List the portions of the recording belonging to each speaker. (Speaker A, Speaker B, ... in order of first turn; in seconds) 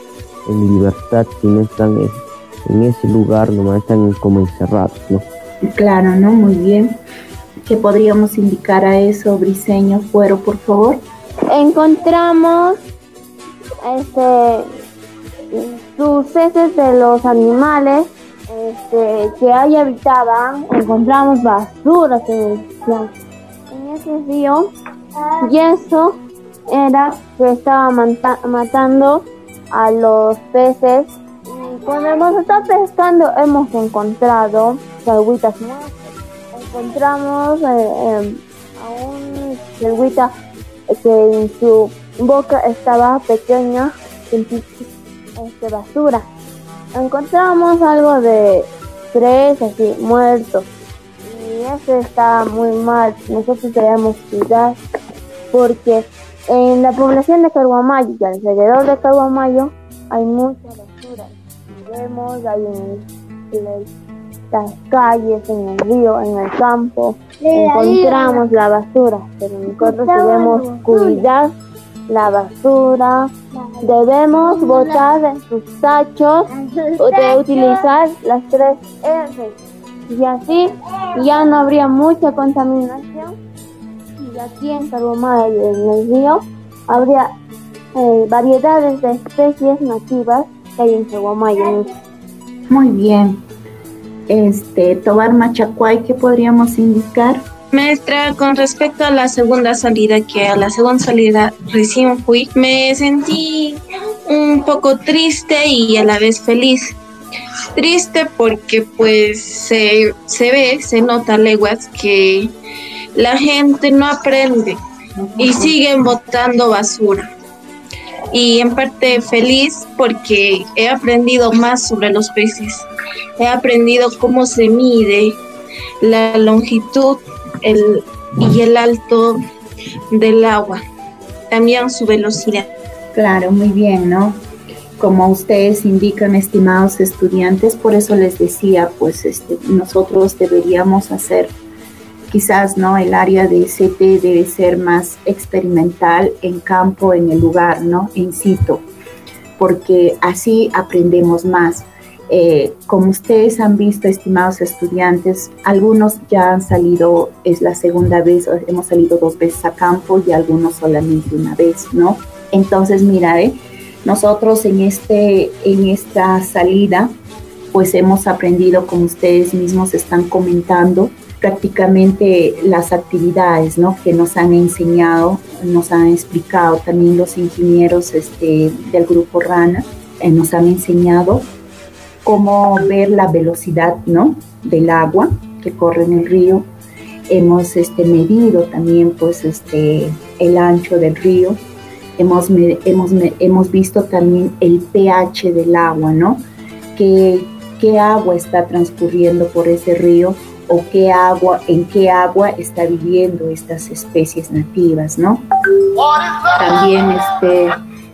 Speaker A: 0.5-5.3
Speaker B: 5.7-7.0, 7.7-11.0, 92.7-93.4, 94.3-97.5, 115.2-115.7, 133.1-134.4, 135.0-141.5, 142.3-148.9, 149.6-167.1, 167.7-181.5, 182.2-186.7, 187.3-191.6, 192.2-196.4, 197.0-205.5, 206.6-207.8
Speaker C: 11.5-12.8, 13.8-14.7, 15.5-23.1, 23.7-24.7, 25.4-26.2, 26.7-40.3, 40.9-46.3, 46.9-50.7, 51.2-54.8, 55.5-63.9, 64.5-71.5, 72.1-79.6, 80.1-83.3, 84.2-87.3, 87.9-91.9
Speaker D: 97.7-107.0, 107.8-112.5, 113.2-114.8, 115.4-117.3, 118.3-122.9, 123.4-125.4, 126.0-129.4, 130.1-130.8, 131.5-132.7